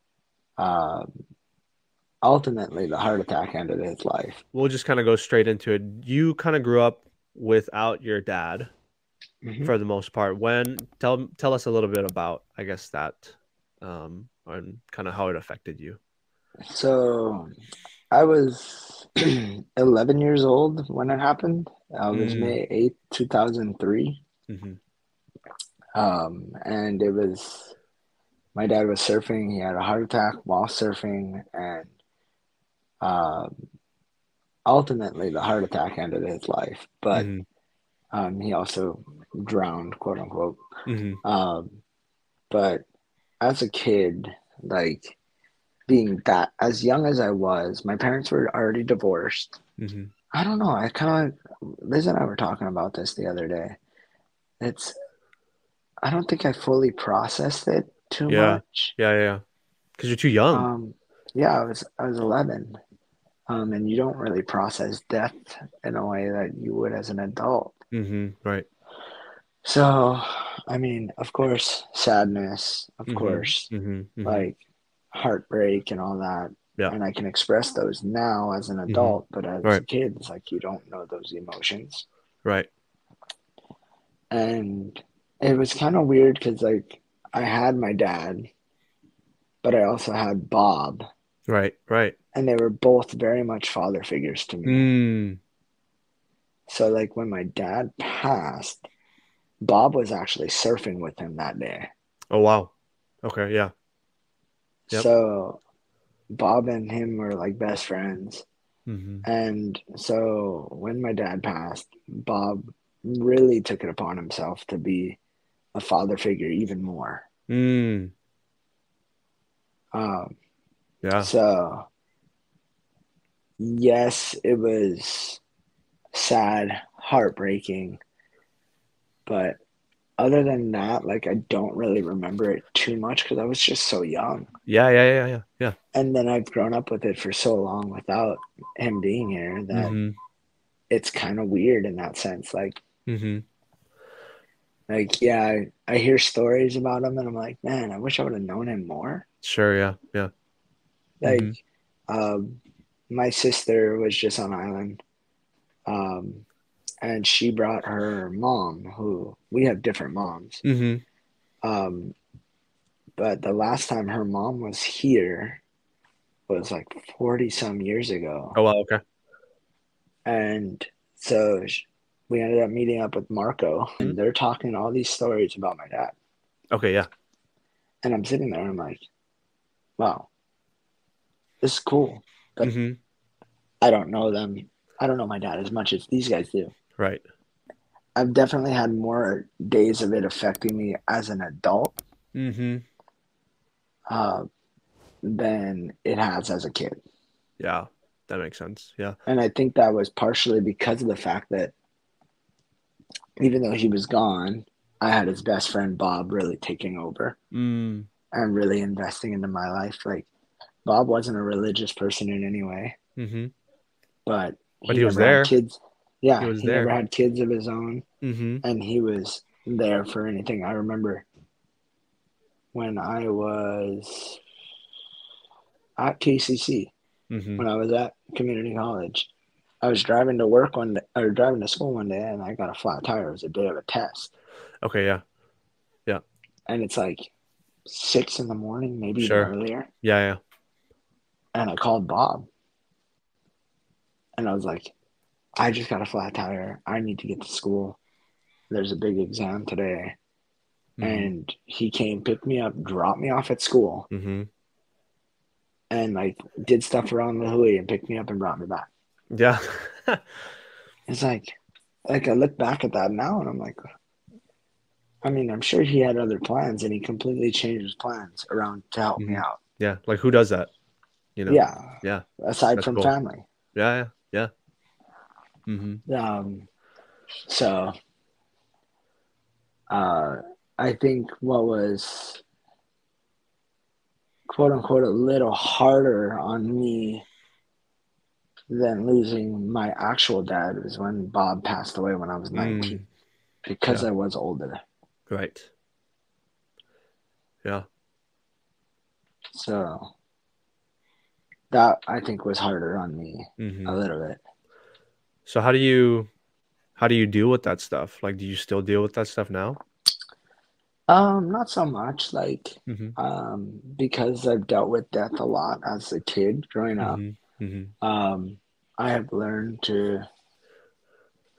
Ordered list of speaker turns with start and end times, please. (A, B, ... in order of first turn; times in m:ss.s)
0:00.6-0:01.1 A
0:02.2-0:04.4 A
0:04.5-0:08.7 B
0:09.4-0:09.7 A
0:09.6-0:16.0 B
0:16.7-0:17.5 A
0:18.1-0:24.2 A
0:22.1-0:22.6 B
0:24.5-0:24.8 B
0:26.0-0:27.8 A
0:28.6-0:31.9 A
0:33.0-0:33.5 A
0:34.7-0:37.3 A
0:37.1-0:37.4 B
0:38.1-0:40.6 A
0:40.9-0:41.2 B
0:41.2-0:41.8 A
0:42.5-0:42.8 A
0:43.4-0:45.2 A
0:45.9-0:49.6 A
0:49.8-0:50.1 B
0:50.3-0:53.8 A
0:54.6-0:55.0 A
0:56.0-0:59.0 A
0:58.3-0:59.4 B
1:00.0-1:00.7 B
1:00.5-1:02.8 A
1:03.5-1:07.8 A
1:07.9-1:08.7 B
1:09.6-1:13.7 A
1:13.1-1:14.4 B
1:14.2-1:14.6 A
1:15.1-1:22.0 A
1:18.9-1:19.8 B
1:22.4-1:22.7 B
1:24.3-1:28.5 A
1:29.6-1:31.0 A
1:31.5-1:32.2 B
1:32.3-1:34.9 A
1:34.7-1:35.4 B
1:36.7-1:38.8 A
1:39.6-1:41.9 A
1:42.3-1:42.7 B
1:43.2-1:43.7 B
1:44.9-1:45.6 A
1:46.3-1:48.5 A
1:48.9-1:49.2 B
1:49.2-1:55.2 A
1:55.7-1:57.2 A
1:57.5-1:58.1 B
1:59.9-2:00.4 A
2:01.0-2:01.3 B
2:01.2-2:01.9 A
2:03.6-2:05.4 A
2:06.1-2:08.0 A
2:09.3-2:09.6 A
2:10.2-2:14.5 A
2:14.7-2:15.8 B
2:15.9-2:20.0 A
2:19.7-2:20.2 B
2:20.9-2:22.8 A
2:23.1-2:23.4 B
2:24.9-2:29.2 A
2:29.4-2:30.3 B
2:31.2-2:31.6 A
2:31.2-2:31.6 B
2:32.1-2:32.6 A
2:33.1-2:35.0 A
2:35.9-2:36.4 A
2:37.0-2:40.6 A
2:40.6-2:41.0 B
2:41.6-2:42.2 A
2:43.2-2:45.6 A
2:46.5-2:48.6 A
2:48.6-2:49.0 B
2:50.2-2:56.2 A
2:56.7-2:57.1 B
2:58.0-2:59.0 A
3:00.0-3:00.3 A
3:01.6-3:02.7 A
3:02.6-3:03.0 B
3:03.8-3:06.7 A
3:07.0-3:07.2 B
3:08.2-3:12.0 A
3:12.4-3:12.8 B
3:14.1-3:14.5 A
3:15.2-3:17.0 A
3:17.6-3:19.2 B
3:19.3-3:21.7 A
3:23.4-3:27.4 A
3:27.5-3:28.1 B
3:28.3-3:30.3 A
3:30.8-3:33.0 A
3:33.2-3:33.5 B
3:34.3-3:38.0 A
3:34.9-3:35.5 B
3:36.4-3:37.0 B
3:38.2-3:38.6 B
3:38.6-3:41.3 A
3:42.7-3:44.4 A
3:46.0-3:46.9 A
3:47.3-3:47.6 B
3:47.6-3:49.3 A
3:49.8-3:54.3 A
3:54.8-3:55.2 B
3:56.7-3:57.3 A
3:57.9-3:59.9 A
3:59.2-3:59.5 B
4:00.0-4:00.4 B
4:01.6-4:02.5 A
4:04.4-4:04.9 A
4:05.6-4:08.0 A
4:08.7-4:10.2 A
4:11.0-4:11.3 B
4:11.0-4:14.1 A
4:14.1-4:14.5 B
4:15.9-4:18.9 A
4:19.3-4:20.3 B
4:21.1-4:21.6 A
4:22.1-4:23.8 A
4:25.2-4:29.6 A
4:29.2-4:30.7 B
4:31.4-4:33.1 B
4:31.5-4:33.5 A
4:33.8-4:34.5 B
4:35.7-4:36.0 B
4:36.1-4:36.7 A
4:37.5-4:37.9 A
4:39.9-4:42.4 A
4:44.5-4:47.2 A
4:48.7-4:53.0 A
4:52.6-4:53.1 B
4:53.6-4:54.8 A
4:55.3-4:55.7 B
4:59.5-5:00.1 A
5:01.7-5:04.4 A
5:03.6-5:04.0 B
5:05.5-5:06.3 B
5:07.0-5:09.8 B
5:11.1-5:17.2 A
5:12.9-5:13.2 B
5:17.0-5:17.9 B
5:18.0-5:20.3 A